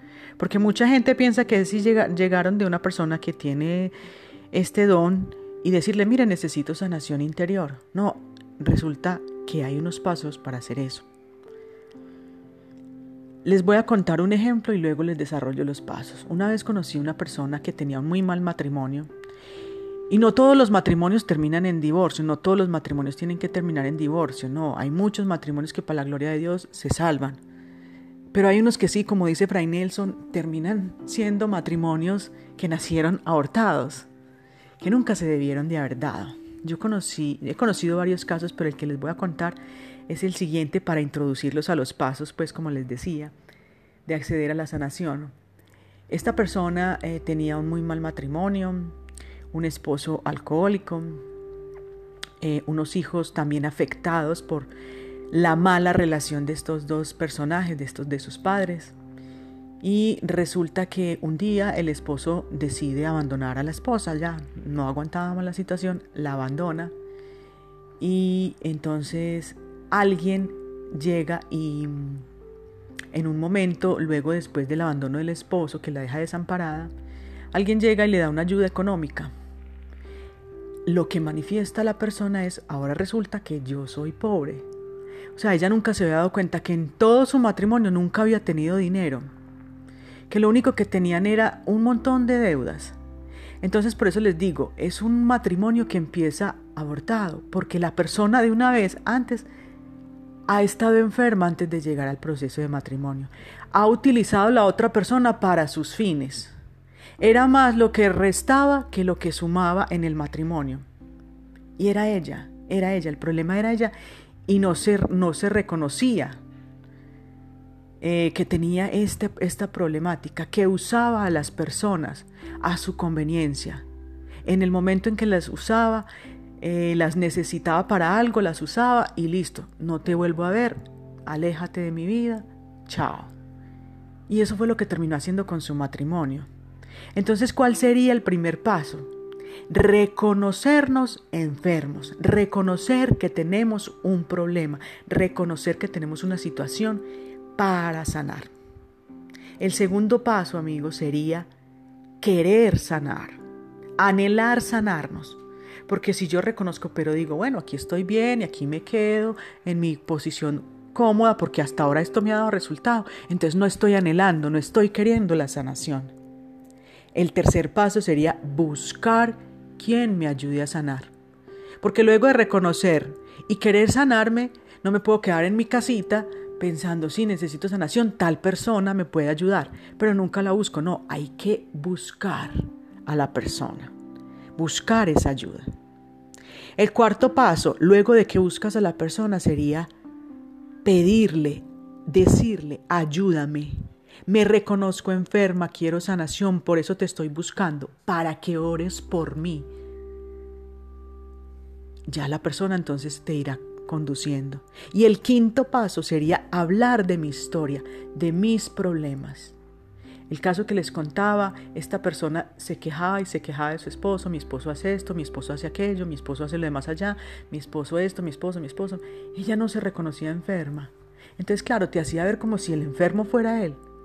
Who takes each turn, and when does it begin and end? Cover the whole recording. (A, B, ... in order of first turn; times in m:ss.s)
0:00.4-0:03.9 A
0:04.5-0:11.1 A
0:13.4-0:19.1 A
0:20.1-0:27.4 A
0:28.3-0:34.1 A
0:34.8-0:43.3 A
0:44.1-0:45.3 A
0:46.1-0:49.0 A
0:49.5-0:51.2 A
0:52.4-0:54.7 A
0:55.3-0:59.0 A
0:59.8-1:06.9 A
1:08.0-1:12.3 A
1:13.1-1:16.9 A
1:17.5-1:19.3 A
1:20.9-1:24.7 A
1:25.4-1:29.3 A
1:30.3-1:33.0 A
1:33.6-1:39.5 A
1:40.5-1:46.5 A
1:47.2-1:50.8 A
1:51.8-1:53.9 A
1:54.5-1:56.4 A
1:58.0-2:03.8 A
2:04.4-2:06.1 A
2:06.6-2:13.3 A
2:14.3-2:16.5 A
2:17.2-2:19.1 A
2:19.7-2:27.0 A
2:27.6-2:28.5 A
2:29.6-2:31.5 A
2:32.2-2:33.4 A
2:34.0-2:46.1 A
2:47.1-2:51.1 A
2:51.8-3:03.9 A
3:04.6-3:05.7 A
3:06.8-3:09.9 A
3:10.8-3:19.7 A
3:22.1-3:29.6 A
3:30.3-3:43.8 A